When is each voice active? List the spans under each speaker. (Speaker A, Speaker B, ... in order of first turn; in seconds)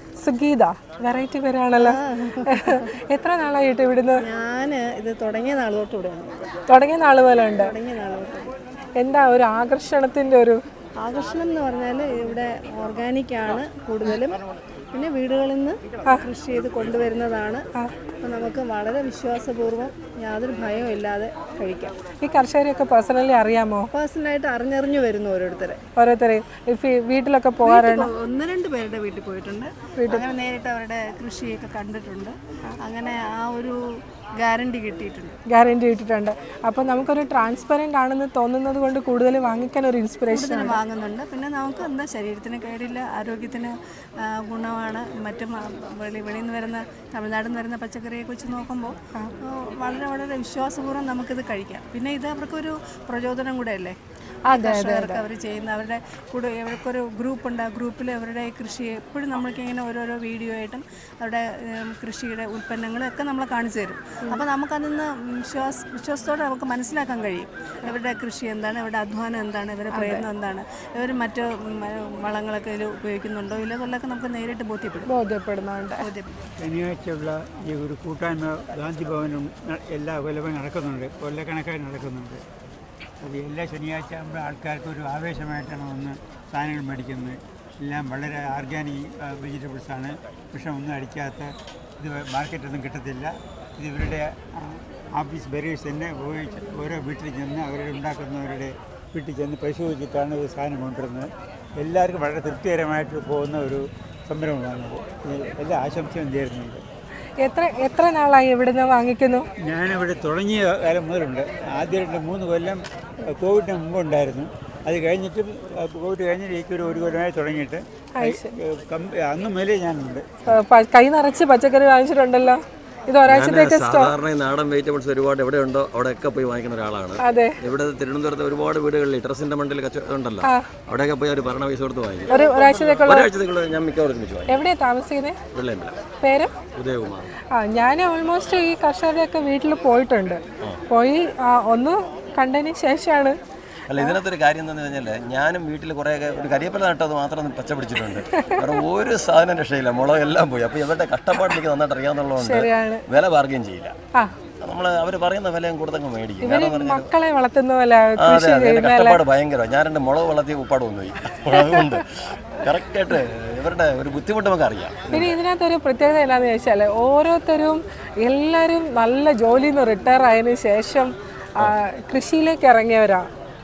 Speaker A: 0.2-4.2, 6.7-7.7, 9.0-10.6, 22.2-23.9, 26.0-28.1, 30.0-30.2, 35.5-40.8, 54.5-55.2, 69.9-70.2, 75.0-76.0, 107.4-109.5, 118.2-118.5, 120.5-124.1, 127.2-127.6, 132.3-133.3, 134.5-135.4, 136.2-136.6, 137.5-143.4, 152.4-153.0, 156.4-159.2, 161.6-161.9, 165.1-173.3
Speaker B: 1.8-2.8, 4.2-6.3, 7.6-8.5, 11.0-14.4, 14.9-17.6, 18.2-21.9, 23.9-25.8, 27.6-33.8, 34.4-35.3, 40.3-53.9, 54.5-75.1, 76.0-76.3
Speaker C: 76.6-82.4, 83.2-106.8, 109.6-112.8, 113.3-120.4
Speaker D: 123.3-132.3, 133.0-134.6, 135.5-136.0, 136.7-137.3, 143.9-153.9, 154.6-157.1, 158.2-162.0, 162.6-165.4